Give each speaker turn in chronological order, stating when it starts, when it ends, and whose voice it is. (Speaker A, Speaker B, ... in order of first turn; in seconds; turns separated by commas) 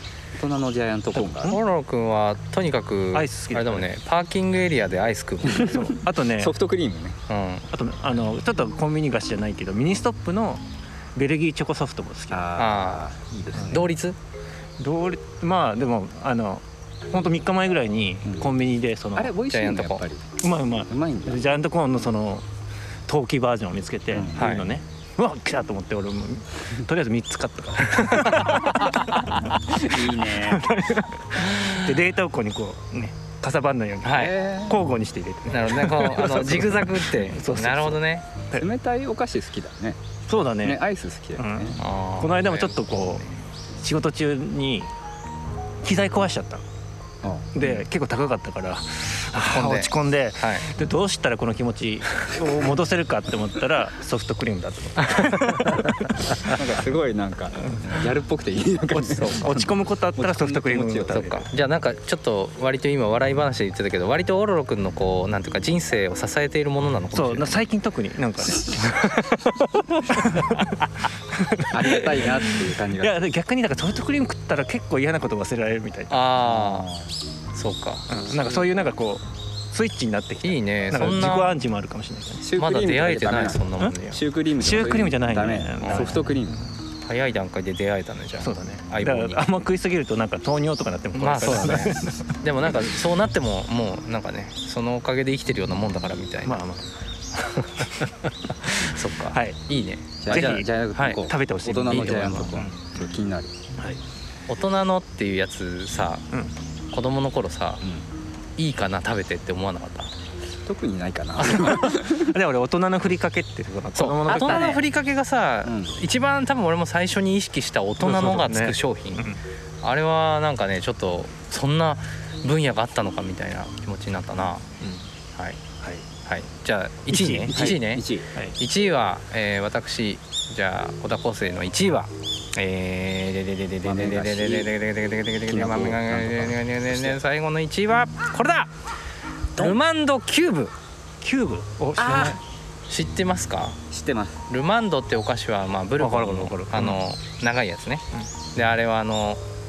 Speaker A: 0.4-1.6, Speaker B: 1.1-1.6, Speaker C: 1.4-5.8, Speaker B: 3.1-3.9, Speaker A: 5.5-7.2, Speaker B: 5.5-6.5, Speaker C: 7.3-7.7, Speaker B: 7.7-10.6, Speaker B: 11.2-12.4, Speaker A: 12.3-13.9, Speaker C: 12.6-13.1, Speaker B: 13.6-13.9, Speaker C: 13.7-14.2, Speaker B: 14.8-19.3, Speaker A: 19.1-20.4, Speaker C: 19.5-20.0, Speaker B: 20.4-22.4, Speaker A: 20.9-21.5, Speaker B: 23.1-38.0, Speaker A: 24.1-24.4, Speaker C: 24.4-24.7, Speaker A: 29.9-30.7, Speaker C: 34.0-34.3, Speaker A: 34.1-34.8, Speaker C: 35.5-38.3, Speaker A: 38.5-40.0, Speaker B: 40.3-40.8, Speaker A: 40.6-41.8, Speaker B: 41.4-43.2, Speaker C: 41.8-43.1, Speaker B: 43.8-44.9, Speaker B: 45.8-46.6, Speaker A: 47.2-47.7, Speaker B: 47.5-56.6, Speaker C: 49.4-50.7, Speaker C: 55.0-55.9, Speaker A: 56.4-61.4, Speaker B: 58.9-61.5, Speaker C: 61.1-67.7, Speaker B: 67.1-70.8, Speaker B: 71.3-76.2, Speaker A: 71.7-73.3, Speaker C: 76.1-76.9, Speaker A: 76.4-77.2, Speaker C: 77.5-78.1, Speaker B: 78.1-82.5, Speaker A: 78.3-78.7, Speaker C: 80.4-81.6, Speaker A: 82.4-86.6, Speaker C: 82.5-84.2, Speaker B: 84.6-86.7, Speaker C: 85.8-86.3, Speaker C: 87.0-89.5, Speaker B: 88.4-92.3, Speaker C: 91.1-96.7, Speaker B: 96.4-96.9, Speaker C: 97.4-101.2, Speaker B: 98.7-99.6, Speaker A: 100.2-103.5, Speaker B: 100.3-102.7, Speaker C: 101.9-102.4, Speaker C: 104.5-106.3, Speaker C: 106.9-107.8, Speaker A: 107.8-108.1, Speaker C: 108.6-110.1, Speaker A: 110.6-112.3, Speaker B: 111.4-114.8, Speaker C: 114.0-119.3, Speaker A: 114.3-114.8, Speaker A: 115.7-116.0, Speaker B: 118.0-119.4, Speaker C: 119.8-124.7, Speaker B: 124.8-125.1, Speaker C: 126.2-138.7, Speaker B: 127.1-127.8, Speaker A: 127.5-128.3, Speaker A: 133.8-134.7, Speaker A: 135.4-137.2, Speaker C: 139.6-140.7, Speaker B: 141.2-142.4, Speaker A: 142.0-142.4, Speaker C: 142.9-143.8, Speaker A: 143.9-144.5, Speaker C: 144.5-148.0, Speaker B: 146.0-147.0, Speaker C: 148.5-149.4